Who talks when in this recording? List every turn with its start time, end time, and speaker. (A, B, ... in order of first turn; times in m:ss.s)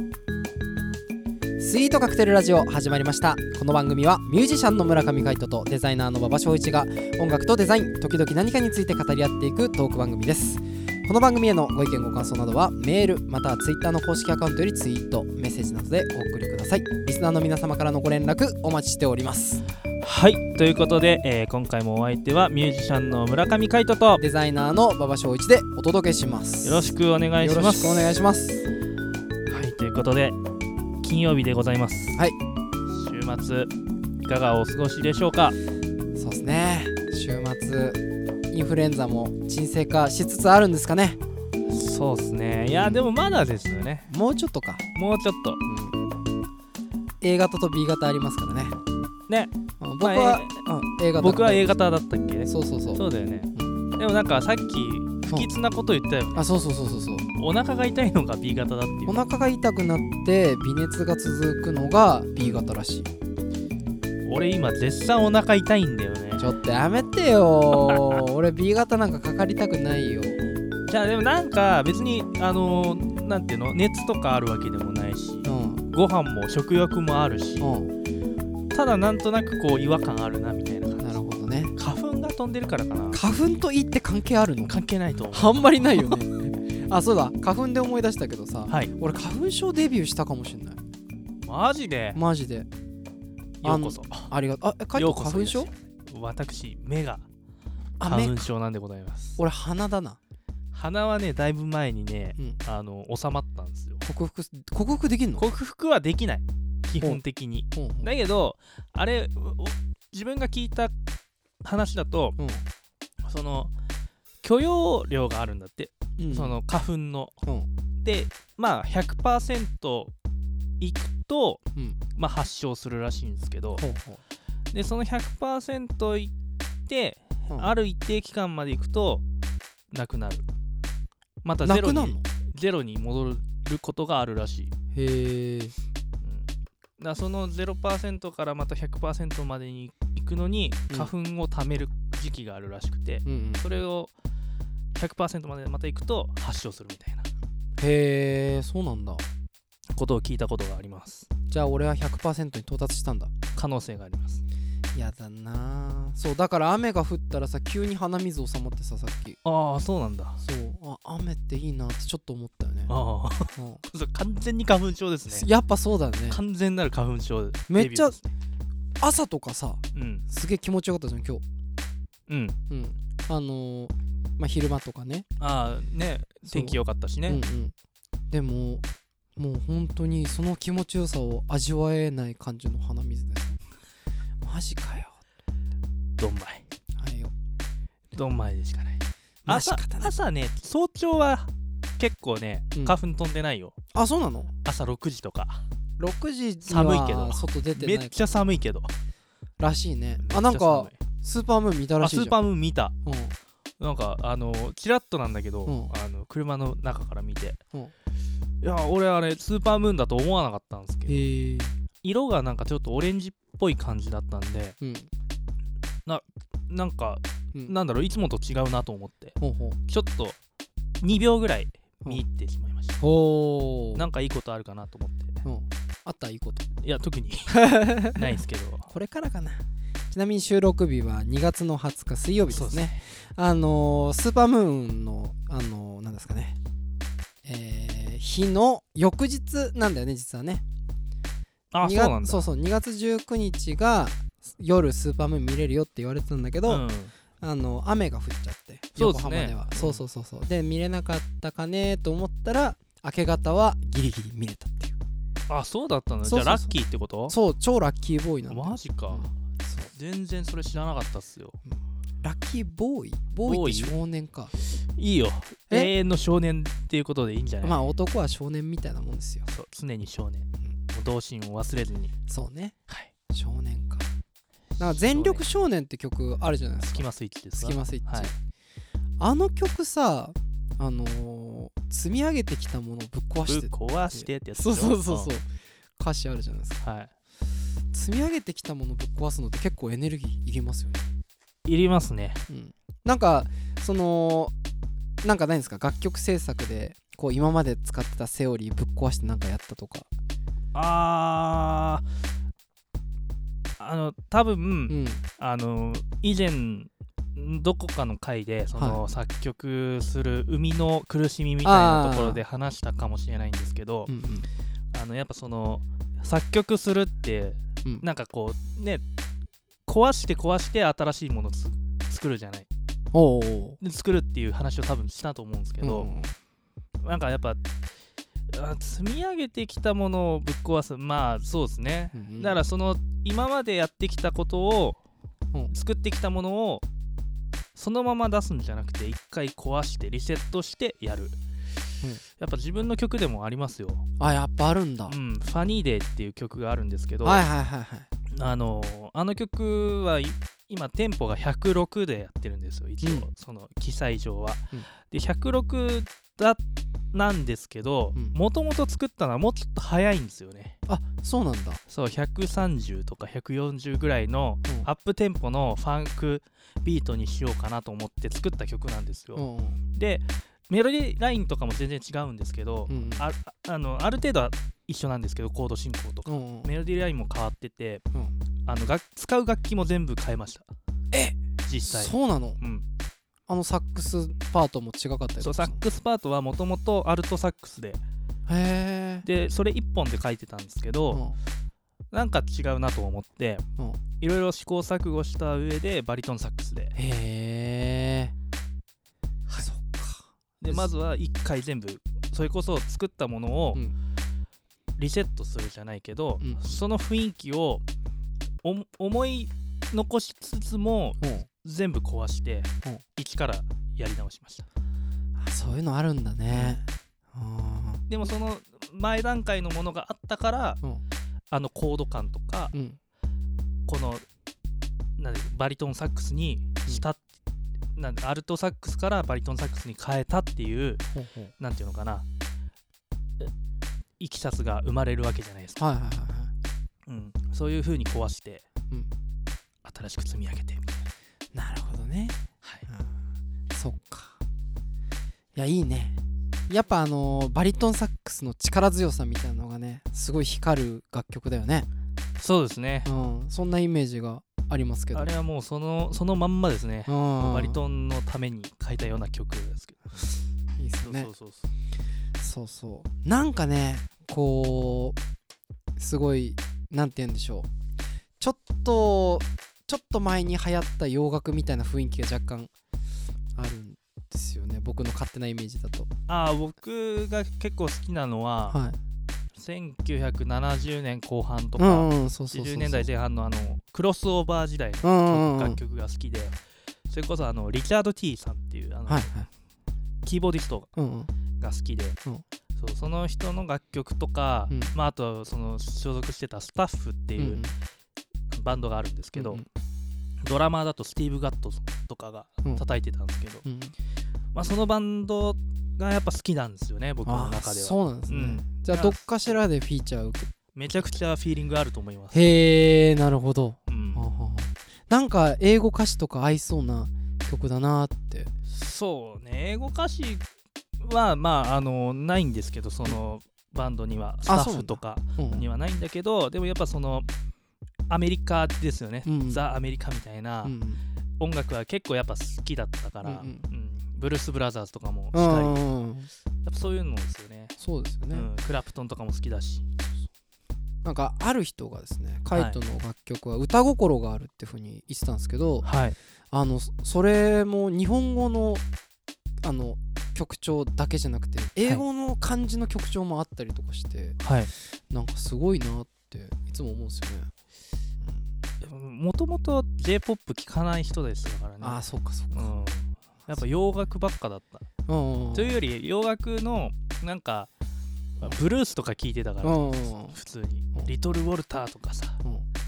0:01.6-0:19.6 A
0:20.0-0:24.2 B
0:24.2-0:28.6 A
0:26.6-0:28.2 B
0:29.5-0:30.4 B
0:31.0-0:32.2 B
0:32.9-0:33.7 B
0:34.2-0:35.6 B
0:36.1-0:38.0 A
0:38.5-0:41.2 A
0:41.7-0:44.1 B
0:42.6-0:43.1 A
0:44.1-0:44.8 A
0:44.9-0:45.6 B
0:45.6-0:46.0 A
0:47.2-0:48.8 A
0:49.3-0:56.5 B
0:49.8-0:51.8 A
0:52.4-0:53.0 A
0:56.3-0:57.3 A
0:57.3-0:59.3 B
0:59.0-1:03.1 A
1:04.2-1:06.5 B
1:06.4-1:10.4 A
1:07.7-1:08.2 B
1:10.9-1:17.7 B
1:15.4-1:15.8 A
1:17.6-1:17.9 A
1:18.7-1:21.2 B
1:21.0-1:21.7 A
1:21.8-1:23.2 B
1:23.1-1:24.8 A
1:24.6-1:26.2 B
1:25.3-1:30.8 A
1:31.4-1:32.2 B
1:32.1-1:32.7 A
1:33.6-1:34.3 B
1:33.6-1:35.7 A
1:34.9-1:37.2 B
1:38.0-1:38.5 A
1:38.0-1:39.4 B
1:39.4-1:40.2 A
1:40.7-1:44.0 B
1:44.0-1:45.4 A
1:45.4-1:50.9 B
1:47.7-1:48.1 A
1:51.6-1:52.4 B
1:52.4-1:52.7 A
1:53.2-1:53.7 B
1:54.4-1:57.4 B
1:56.2-1:56.6 A
1:58.0-2:00.1 B
2:00.8-2:01.6 B
2:02.2-2:03.8 B
2:03.8-2:04.2 A
2:04.7-2:06.3 B
2:06.9-2:09.2 B
2:07.5-2:07.7 A
2:09.9-2:10.4 B
2:11.4-2:14.7 B
2:11.6-2:12.2 A
2:14.9-2:15.8 A
2:16.2-2:24.1 B
2:23.2-2:23.6 A
2:24.9-2:27.3 B
2:27.8-2:29.2 A
2:29.9-2:31.3 B
2:31.5-2:33.3 A
2:33.5-2:34.4 B
2:34.9-2:39.4 A
2:39.4-2:40.4 B
2:40.4-2:42.9 A
2:42.9-2:45.5 B
2:43.5-2:43.8 A
2:45.3-2:46.4 A
2:46.3-2:48.3 B
2:47.7-2:48.2 A
2:49.0-2:51.4 A
2:49.9-2:50.2 B
2:52.3-2:52.6 B
2:52.7-2:55.2 A
2:55.4-2:57.4 B
2:56.4-2:57.7 A
2:58.3-2:58.8 A
2:59.4-3:03.6 A
3:04.4-3:05.2 A
3:06.2-3:06.6 B
3:07.0-3:07.3 A
3:08.1-3:13.8 B
3:09.4-3:10.1 A
3:13.9-3:14.5 A
3:14.6-3:15.6 B
3:16.0-3:18.2 A
3:16.7-3:18.9 B
3:19.6-3:22.3 A
3:20.2-3:21.0 B
3:22.0-3:22.9 B
3:23.0-3:23.4 A
3:23.8-3:27.6 B
3:25.6-3:25.9 A
3:28.6-3:31.3 B
3:31.1-3:31.8 A
3:32.0-3:34.8 B
3:34.8-3:35.1 A
3:36.0-3:39.4 B
3:39.4-3:39.8 A
3:39.9-3:40.4 B
3:41.0-3:43.0 B
3:43.0-3:44.0 A
3:43.9-3:45.4 B
3:45.4-3:46.7 A
3:46.8-3:48.9 B
3:47.5-3:56.6 A
3:52.5-3:53.0 B
3:57.4-4:00.6 A
4:01.7-4:02.5 B
4:01.8-4:06.8 A
4:06.7-4:07.1 B
4:07.4-4:15.0 A
4:09.0-4:10.0 B
4:15.5-4:17.4 B
4:16.2-4:16.7 A
4:17.3-4:19.9 A
4:18.5-4:19.3 B
4:19.9-4:21.6 B
4:22.2-4:24.5 A
4:23.5-4:23.9 B
4:24.6-4:27.9 B
4:27.6-4:29.5 A
4:29.4-4:32.1 B
4:32.3-4:32.8 A
4:33.3-4:34.0 A
4:34.8-4:35.4 B
4:34.8-4:38.3 A
4:36.8-4:38.3 B
4:39.2-4:45.5 A
4:43.5-4:45.3 B
4:46.0-4:46.8 A
4:46.8-4:47.1 B
4:47.9-4:51.0 A
4:51.6-4:52.4 B
4:52.5-4:54.5 A
4:55.2-5:00.1 A
5:00.7-5:02.0 B
5:03.8-5:14.1 B
5:04.9-5:05.2 A
5:08.7-5:09.0 A
5:11.6-5:12.4 A
5:14.1-5:14.5 A
5:14.9-5:19.0 B
5:19.9-5:22.7 B
5:23.1-5:23.8 A
5:23.8-5:26.1 B
5:25.8-5:26.3 A
5:27.0-5:27.6 B
5:28.5-5:35.0 B
5:32.1-5:32.6 A
5:35.7-5:36.8 B
5:37.7-5:41.4 B
5:42.4-5:44.0 B
5:44.2-5:45.1 A
5:45.1-5:47.4 B
5:47.2-5:48.1 A
5:48.3-5:56.6 B
5:53.0-5:53.3 A
5:57.1-6:00.8 B
6:00.9-6:01.8 A
6:01.9-6:18.0 B
6:09.4-6:09.8 A
6:12.9-6:13.2 A
6:16.2-6:16.7 A
6:18.6-6:20.7 B
6:21.1-6:22.6 A
6:21.6-6:22.8 B
6:23.5-6:25.8 A
6:25.4-6:28.0 B
6:28.5-6:29.2 A
6:29.2-6:31.2 B
6:31.1-6:31.4 A
6:32.1-6:33.6 B
6:34.2-6:36.9 B
6:36.9-6:38.3 A
6:39.6-6:40.9 A
6:40.6-6:43.8 B
6:45.0-6:47.8 B
6:48.6-6:54.7 B
6:51.2-6:51.5 A
6:55.4-6:58.0 A
6:56.5-6:56.8 B
6:58.1-7:00.8 B
7:01.5-7:02.7 B
7:02.7-7:03.0 A
7:03.9-7:04.2 B
7:05.2-7:07.2 B
7:08.0-7:11.0 B
7:11.1-7:11.5 A
7:11.6-7:12.2 B
7:14.2-7:15.8 B
7:15.8-7:16.5 A
7:17.1-7:18.6 B
7:19.8-7:21.0 B
7:21.5-7:23.2 A
7:23.7-7:24.4 A
7:25.5-7:26.2 A
7:26.7-7:31.9 A
7:32.4-7:33.1 B
7:33.0-7:35.3 A
7:35.1-7:40.3 B
7:37.1-7:37.8 A
7:40.8-7:41.3 A
7:41.0-7:41.7 B
7:42.4-7:45.2 A
7:46.0-7:47.7 A
7:48.4-7:52.7 A
7:53.6-7:56.1 A
7:56.3-7:58.8 B
7:58.7-7:59.0 A
7:59.6-8:06.6 B
8:01.8-8:03.1 A
8:05.0-8:05.8 A
8:07.1-8:09.3 B
8:09.1-8:09.5 A
8:10.2-8:10.9 B
8:11.0-8:11.3 A
8:11.6-8:12.2 B
8:12.8-8:17.6 B
8:17.4-8:17.7 A
8:18.5-8:19.6 B
8:19.3-8:19.6 A
8:20.4-8:23.6 B
8:23.6-8:23.9 A
8:24.5-8:29.6 B
8:27.2-8:30.5 A
8:30.7-8:32.4 B
8:32.3-8:38.5 A
8:33.9-8:34.3 B
8:38.7-8:40.4 B
8:41.0-8:47.3 B
8:44.5-8:45.6 A
8:48.1-8:50.7 B
8:49.2-8:49.6 A
8:50.6-8:51.0 A
8:51.4-8:55.8 B
8:53.2-8:53.7 A
8:55.3-8:56.3 A
8:56.6-8:57.7 B
8:57.8-8:58.5 A
8:58.3-8:59.8 B
9:01.0-9:05.9 A
9:02.5-9:02.8 B
9:05.8-9:06.2 B
9:06.5-9:08.8 A
9:09.6-9:14.4 A
9:14.4-9:14.7 B
9:15.1-9:17.5 A
9:18.8-9:24.8 B
9:21.8-9:22.8 A
9:25.1-9:25.8 A
9:25.5-9:27.7 B
9:28.4-9:32.4 B
9:29.6-9:30.4 A